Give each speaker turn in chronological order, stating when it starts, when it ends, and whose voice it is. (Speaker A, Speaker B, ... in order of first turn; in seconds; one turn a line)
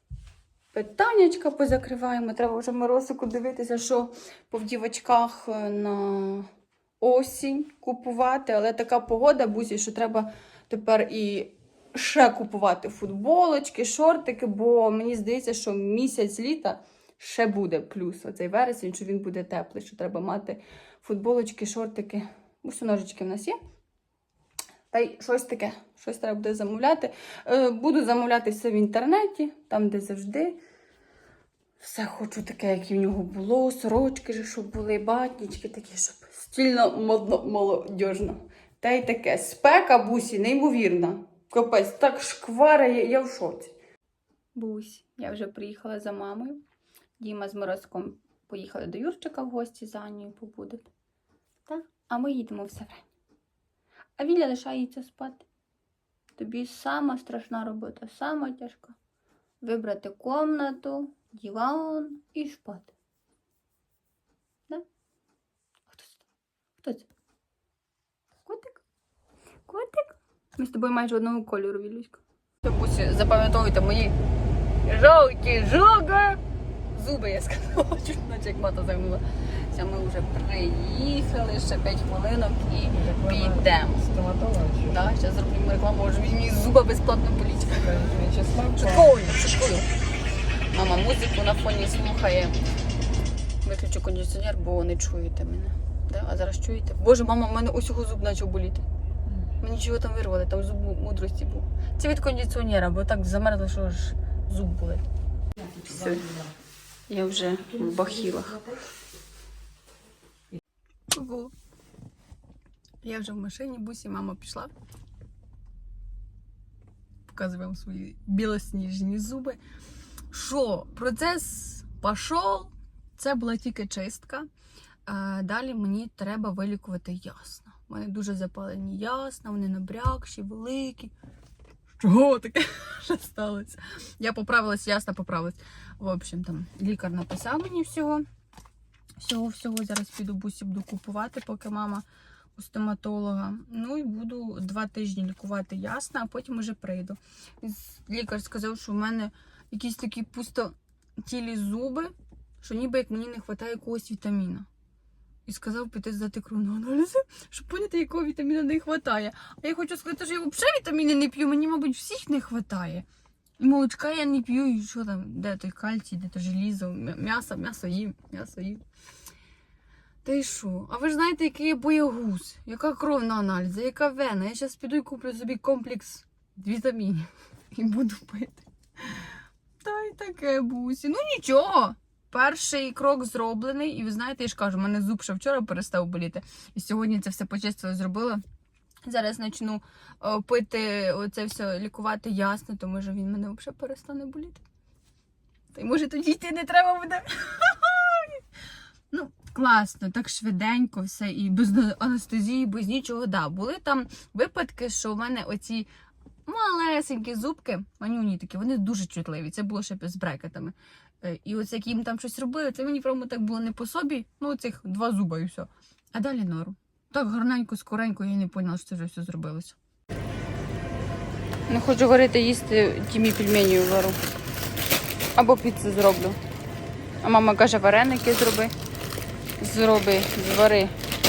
Speaker A: 0.7-6.5
Speaker A: 7.0-23.6
Speaker A: 24.9-30.6
Speaker A: 31.8-43.7
Speaker A: 44.5-46.6
Speaker A: 47.2-50.9
Speaker A: 51.7-53.1
Speaker A: 54.2-55.4
Speaker A: 56.4-59.0
Speaker A: 59.6-62.9
Speaker A: 65.9-66.3
Speaker A: 66.8-67.1
Speaker A: 68.4-68.8
Speaker A: 69.7-74.2
Speaker A: 74.8-76.4
Speaker A: 76.9-84.1
Speaker B: 82.9-84.9
Speaker A: 84.8-88.0
Speaker B: 87.8-89.2
Speaker A: 88.7-89.9
Speaker A: 90.7-92.6
Speaker A: 93.6-98.8
Speaker A: 99.6-105.0
Speaker B: 105.6-106.5
Speaker A: 105.9-106.2
Speaker A: 107.1-108.6
Speaker B: 107.7-108.8
Speaker A: 111.1-111.5
Speaker A: 113.0-114.7
Speaker A: 117.3-119.6
Speaker A: 120.3-124.5
Speaker A: 125.0-131.1
Speaker A: 132.0-138.2
Speaker A: 139.2-142.0
Speaker A: 142.6-154.7
Speaker A: 155.4-163.1
Speaker A: 163.6-168.8
Speaker A: 170.2-188.4
Speaker A: 189.0-194.6
Speaker A: 195.7-198.4
Speaker A: 199.1-205.9
Speaker A: 206.4-219.8
Speaker A: 221.7-224.2
Speaker A: 225.3-226.4
Speaker A: 227.2-228.7
Speaker A: 229.6-230.9